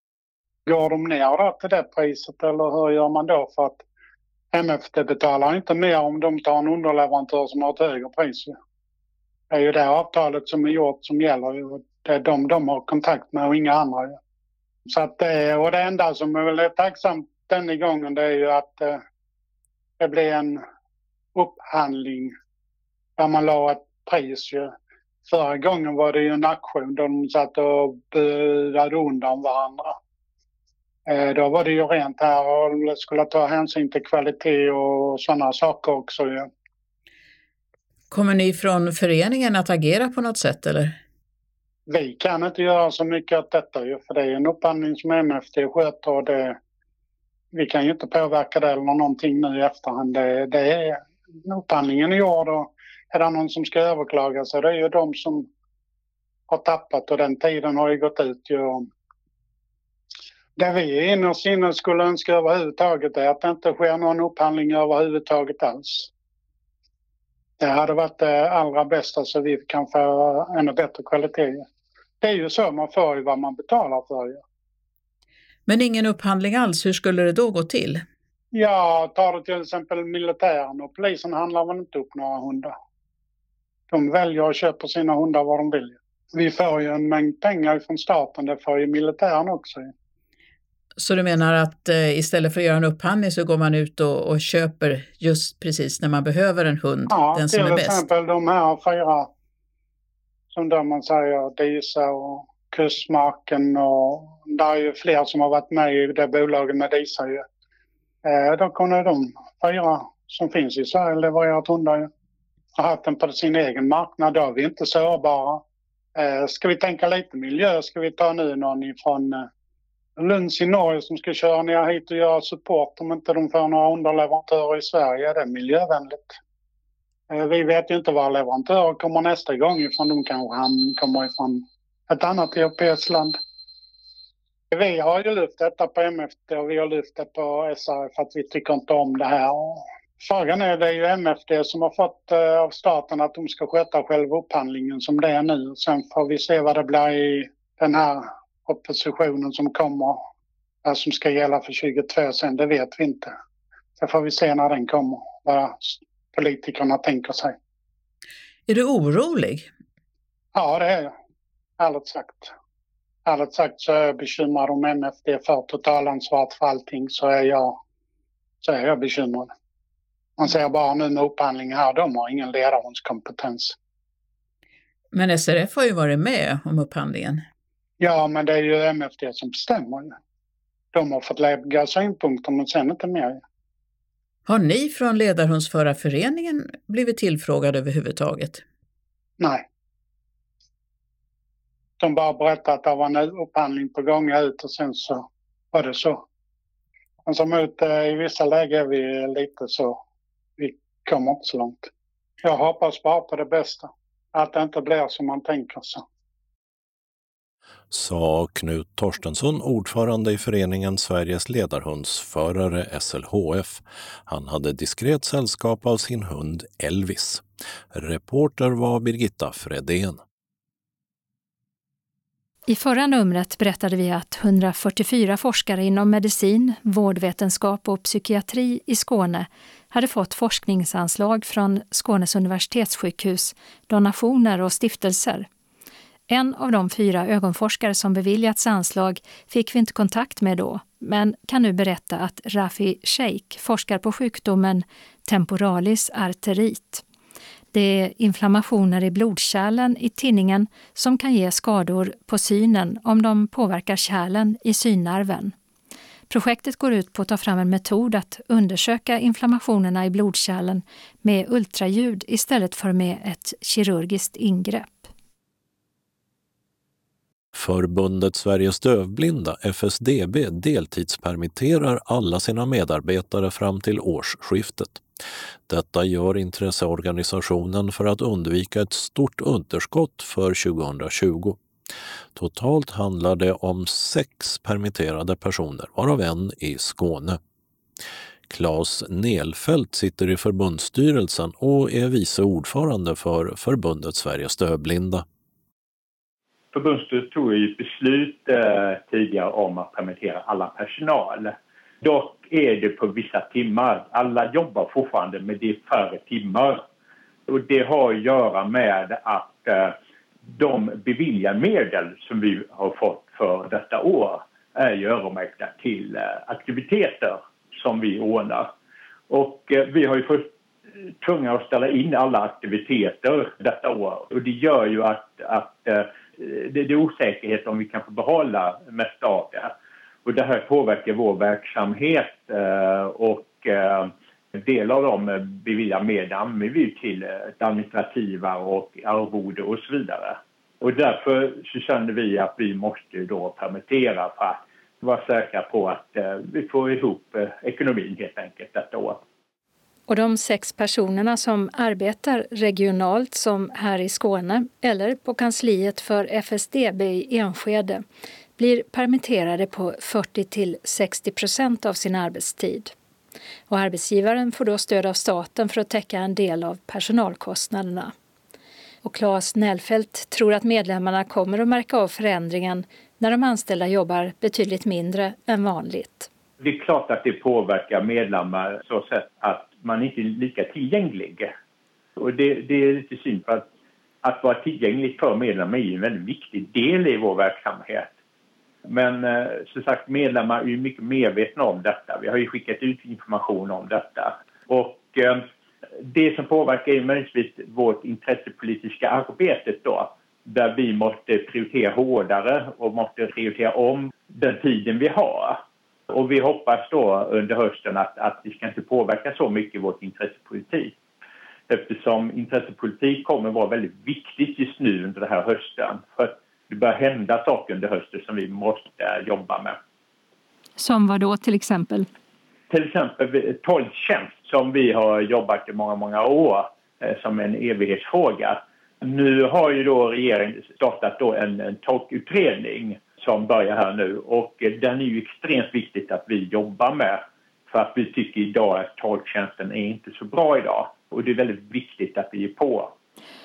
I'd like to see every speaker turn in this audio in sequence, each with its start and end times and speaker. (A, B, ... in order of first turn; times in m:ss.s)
0:00.7-0:03.8 A
0:04.5-0:08.6 A
0:09.5-0:14.2 A
0:14.9-0:19.0 A
0:20.0-0:20.6 A
0:21.4-0:22.3 A
0:23.2-0:24.7 A
0:25.3-0:30.0 A
0:31.1-0:36.5 A
0:38.1-0:41.0 B
0:41.9-0:46.6 A
0:47.5-0:55.5 A
0:56.5-0:58.9 A
1:00.6-1:06.1 A
1:07.6-1:11.7 A
1:12.2-1:14.4 A
1:15.7-1:18.0 B
1:18.5-1:22.7 A
1:23.9-1:29.9 A
1:31.0-1:38.0 B
1:37.1-1:39.3 A
1:40.5-1:47.4 A
1:48.2-1:52.1 A
1:52.8-1:55.6 A
1:56.2-1:59.5 A
2:00.2-2:06.4 A
2:07.3-2:13.4 A
2:14.7-2:30.2 A
2:30.8-2:33.4 A
2:34.0-2:37.6 A
2:38.7-2:39.7 B
2:40.6-2:41.1 A
2:41.8-2:42.5 A
2:43.2-2:47.8 A
2:48.6-2:49.5 A
2:50.4-2:53.8 A
2:55.1-2:57.4 B
2:58.0-3:00.2 A
3:00.9-3:03.4 A
3:04.5-3:08.6 B
3:09.4-3:09.6 A
3:12.0-3:16.2 A
3:17.3-3:20.0 A
3:20.6-3:21.9 A
3:22.4-3:26.0 A
3:27.9-3:40.2 C
3:42.7-3:55.5 D
3:56.3-4:07.0 D
4:07.7-4:15.5 D
4:16.3-4:25.1 D
4:27.5-4:35.0 C
4:35.7-4:41.6 C
4:42.4-4:47.4 C
4:48.5-4:55.3 C
4:56.7-5:06.8 E
5:07.5-5:10.0 E
5:10.5-5:18.7 E
5:19.3-5:20.5 E
5:21.2-5:49.2 E
5:50.1-5:58.0 D
5:58.6-6:02.9 D
6:03.7-6:08.1 D
6:09.0-6:16.3 D
6:16.6-6:21.5 E
6:22.2-6:23.7 E
6:24.2-6:28.1 E
6:28.9-6:35.5 E
6:36.1-6:50.9 E
6:51.7-6:59.8 E
7:00.8-7:02.1 D
7:02.7-7:22.9 E